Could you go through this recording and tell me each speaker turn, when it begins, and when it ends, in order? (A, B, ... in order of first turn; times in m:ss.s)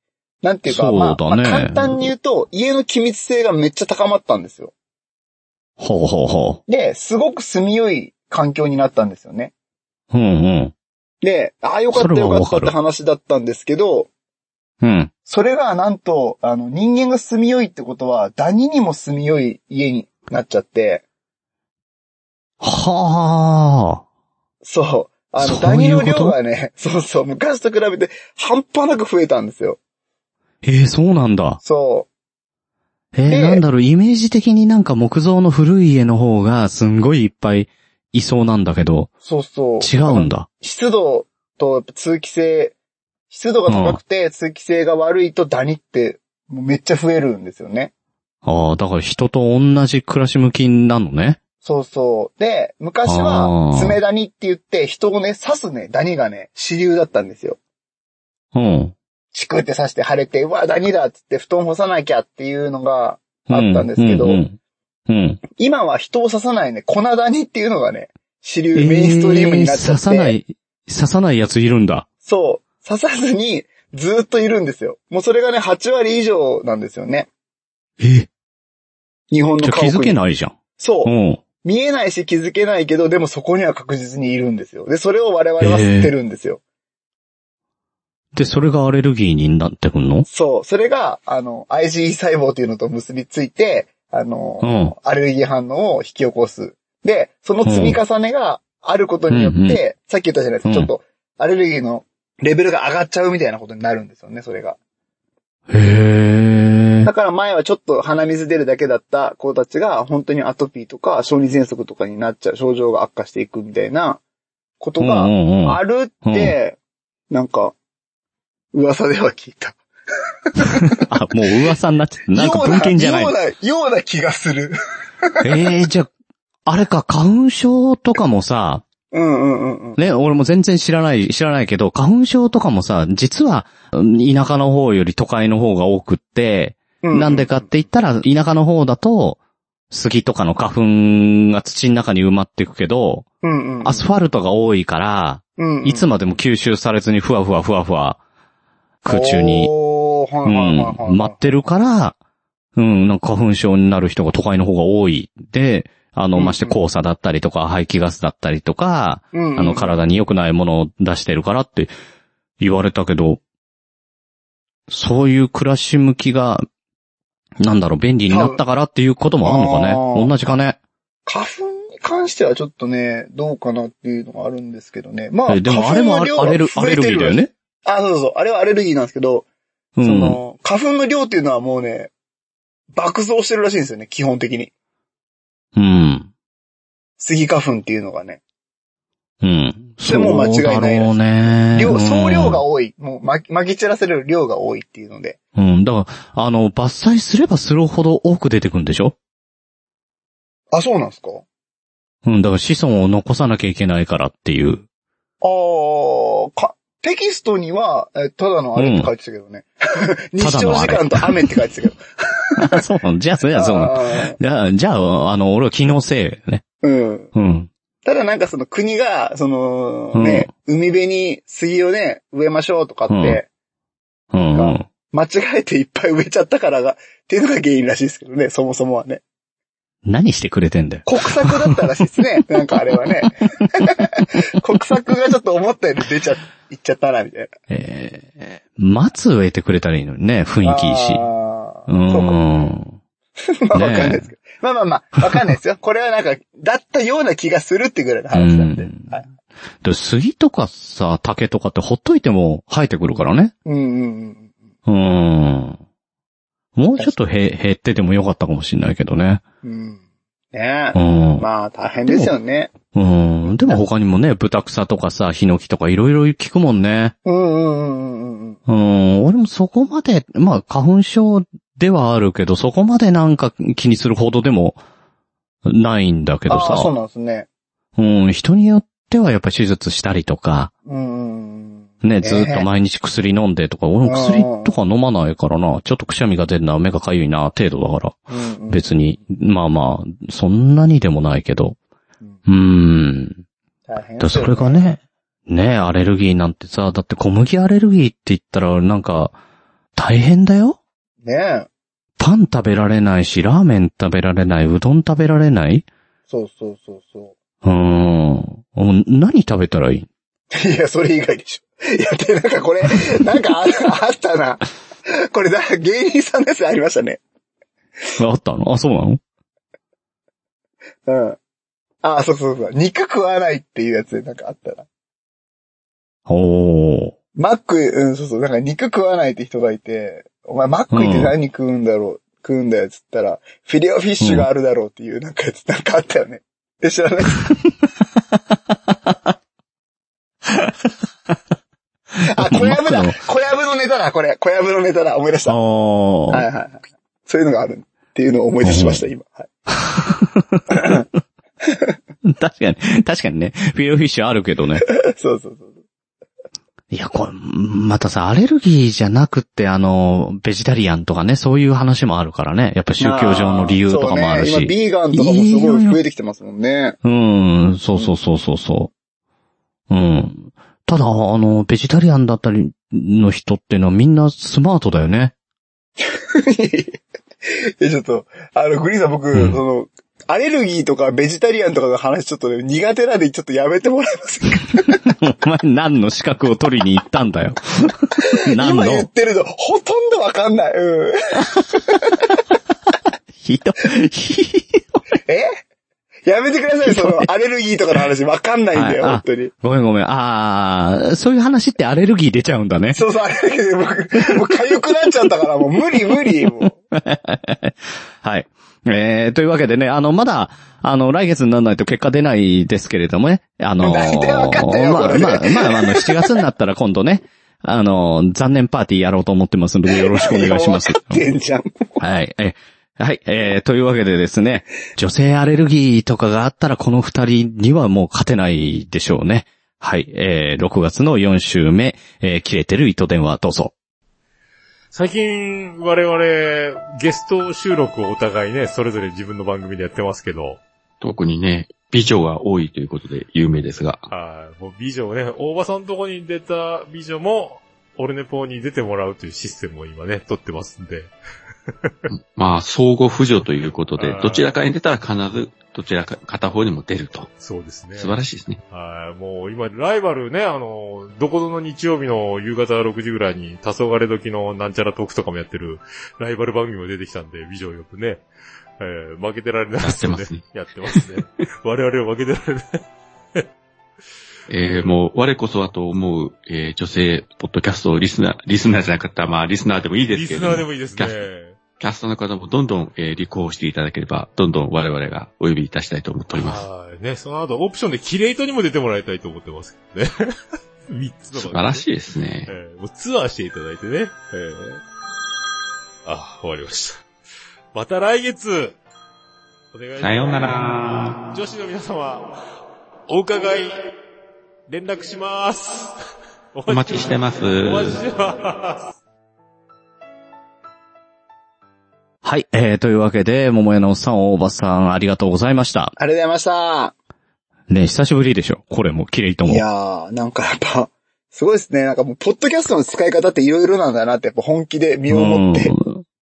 0:00.4-0:04.7 A
0:00.7-0:02.1 B
0:05.8-0:06.6 B
0:06.7-0:09.5 A
0:10.1-0:10.7 B
0:11.2-0:14.1 A
0:11.9-0:12.7 B
0:14.8-0:15.1 B
0:15.3-0:21.0 A
0:22.6-0:24.0 B
0:24.6-0:29.8 A
0:25.4-0:26.4 B
0:30.6-0:31.6 B
0:31.6-0:32.1 A
0:33.1-0:39.1 B
0:33.3-0:33.6 A
0:39.2-0:42.8 A
0:39.8-0:40.5 B
0:43.3-0:47.9 A
0:43.7-0:44.0 B
0:48.4-0:51.4 B
0:51.6-0:57.6 A
0:53.1-0:54.0 B
0:58.5-0:59.0 B
0:59.3-1:04.4 A
1:03.5-1:04.6 B
1:05.1-1:05.4 B
1:05.6-1:10.4 A
1:08.8-1:12.1 B
1:12.2-1:17.3 A
1:18.0-1:18.3 B
1:19.3-1:20.2 A
1:19.6-1:21.4 B
1:20.8-1:26.6 A
1:25.6-1:26.1 B
1:28.3-1:30.3 B
1:30.3-1:44.8 A
1:34.6-1:34.9 B
1:37.6-1:38.0 B
1:39.3-1:39.8 B
1:45.7-1:47.1 B
1:47.0-1:54.2 A
1:54.8-1:56.8 A
1:55.0-1:56.6 B
1:57.3-1:57.8 A
1:58.7-1:59.8 A
2:00.5-2:01.0 A
2:00.9-2:03.3 B
2:02.3-2:04.8 A
2:05.4-2:06.1 B
2:06.7-2:08.8 B
2:09.1-2:10.0 A
2:10.0-2:19.4 B
2:17.0-2:17.7 A
2:19.9-2:23.3 B
2:23.4-2:24.1 A
2:23.8-2:28.2 B
2:25.6-2:26.1 A
2:29.0-2:29.7 B
2:29.1-2:31.6 A
2:30.5-2:32.2 B
2:32.8-2:41.9 B
2:36.4-2:36.8 A
2:39.3-2:40.0 A
2:42.6-2:43.4 B
2:44.9-2:46.7 B
2:47.6-2:50.8 B
2:48.3-2:48.6 A
2:49.4-2:50.3 A
2:51.3-2:59.4 A
2:55.5-2:57.5 B
3:00.0-3:00.4 B
3:00.0-3:02.1 A
3:02.9-3:04.7 A
3:05.8-3:06.3 B
3:07.2-3:08.4 A
3:09.4-3:12.6 B
3:10.0-3:11.1 A
3:11.7-3:15.4 A
3:15.6-3:19.2 B
3:20.7-3:21.4 A
3:22.2-3:24.8 B
3:25.4-3:32.0 A
3:28.8-3:29.1 B
3:30.4-3:31.5 B
3:32.5-3:32.8 A
3:32.6-3:36.6 B
3:33.6-3:34.4 A
3:36.8-3:37.3 A
3:37.3-3:37.7 B
3:38.0-3:43.5 A
3:40.2-3:40.5 B
3:43.1-3:43.4 B
3:44.3-3:44.9 B
3:44.5-3:49.2 A
3:50.1-3:51.8 B
3:51.1-3:57.5 A
3:57.7-4:01.3 B
4:00.6-4:02.7 A
4:01.9-4:03.0 B
4:03.6-4:09.3 A
4:03.7-4:04.3 B
4:05.2-4:05.5 B
4:08.3-4:09.1 B
4:09.8-4:13.5 B
4:13.7-4:14.5 A
4:14.9-4:15.8 B
4:16.8-4:19.4 B
4:19.6-4:20.0 A
4:20.5-4:22.7 A
4:20.9-4:21.4 B
4:22.1-4:22.3 B
4:22.9-4:27.2 B
4:27.2-4:28.6 A
4:28.7-4:34.8 B
4:35.7-4:36.9 B
4:36.5-4:37.5 A
4:38.0-4:40.7 B
4:40.9-4:42.7 A
4:42.0-4:51.8 B
4:44.0-4:44.7 A
4:48.3-4:48.9 A
4:52.5-4:53.4 B
4:53.9-4:54.8 A
4:54.2-4:59.4 B
5:00.0-5:00.8 B
5:01.2-5:01.7 A
5:02.2-5:05.9 B
5:06.3-5:07.3 A
5:07.6-5:10.1 B
5:10.5-5:17.2 A
5:18.2-5:19.2 B
5:21.1-5:21.4 A
5:22.0-5:24.9 A
5:26.3-5:27.2 B
5:27.4-5:37.4 A
5:30.9-5:31.3 B
5:34.2-5:34.5 B
5:42.2-5:45.6 A
5:42.4-5:43.2 B
5:45.5-5:46.4 B
5:46.3-5:49.5 A
5:48.6-5:49.0 B
5:49.8-5:51.0 B
5:50.8-5:51.0 A
5:52.2-5:54.8 B
5:54.8-5:55.7 A
5:56.9-6:06.0 B
6:03.0-6:07.0 A
6:07.0-6:08.9 B
6:09.9-6:15.3 B
6:16.1-6:25.0 A
6:19.3-6:19.6 B
6:25.1-6:29.1 B
6:28.2-6:32.2 A
6:33.4-6:34.9 B
6:35.3-6:35.5 A
6:36.3-6:39.5 A
6:36.9-6:37.3 B
6:38.7-6:43.0 B
6:42.9-6:46.8 A
6:46.9-7:01.2 B
6:53.8-6:56.4 A
6:59.9-7:02.0 A
7:02.0-7:13.7 B
7:14.9-7:20.6 C
7:21.0-7:24.1 D
7:24.1-7:31.1 C
7:32.1-7:37.3 D
7:34.0-7:34.5 C
7:37.3-7:38.2 C
7:38.0-7:38.6 D
7:38.7-7:48.2 C
7:48.8-7:52.6 C
7:49.8-7:51.1 D
7:54.5-8:01.2 D
7:54.6-7:54.9 C
8:00.1-8:01.6 C
8:01.8-8:06.7 D
8:06.3-8:10.1 C
8:10.9-8:11.8 C
8:11.3-8:12.5 D
8:12.5-8:14.8 C
8:16.0-8:17.0 C
8:17.7-8:18.8 C
8:19.7-8:20.7 C
8:20.0-8:21.2 D
8:21.3-8:22.3 C
8:23.1-8:23.8 C
8:24.7-8:25.9 C
8:26.5-8:28.8 C
8:26.7-8:28.0 D
8:32.2-8:35.9 B
8:36.0-8:37.0 A
8:37.7-8:39.6 B
8:39.4-8:45.7 A
8:45.1-8:46.0 B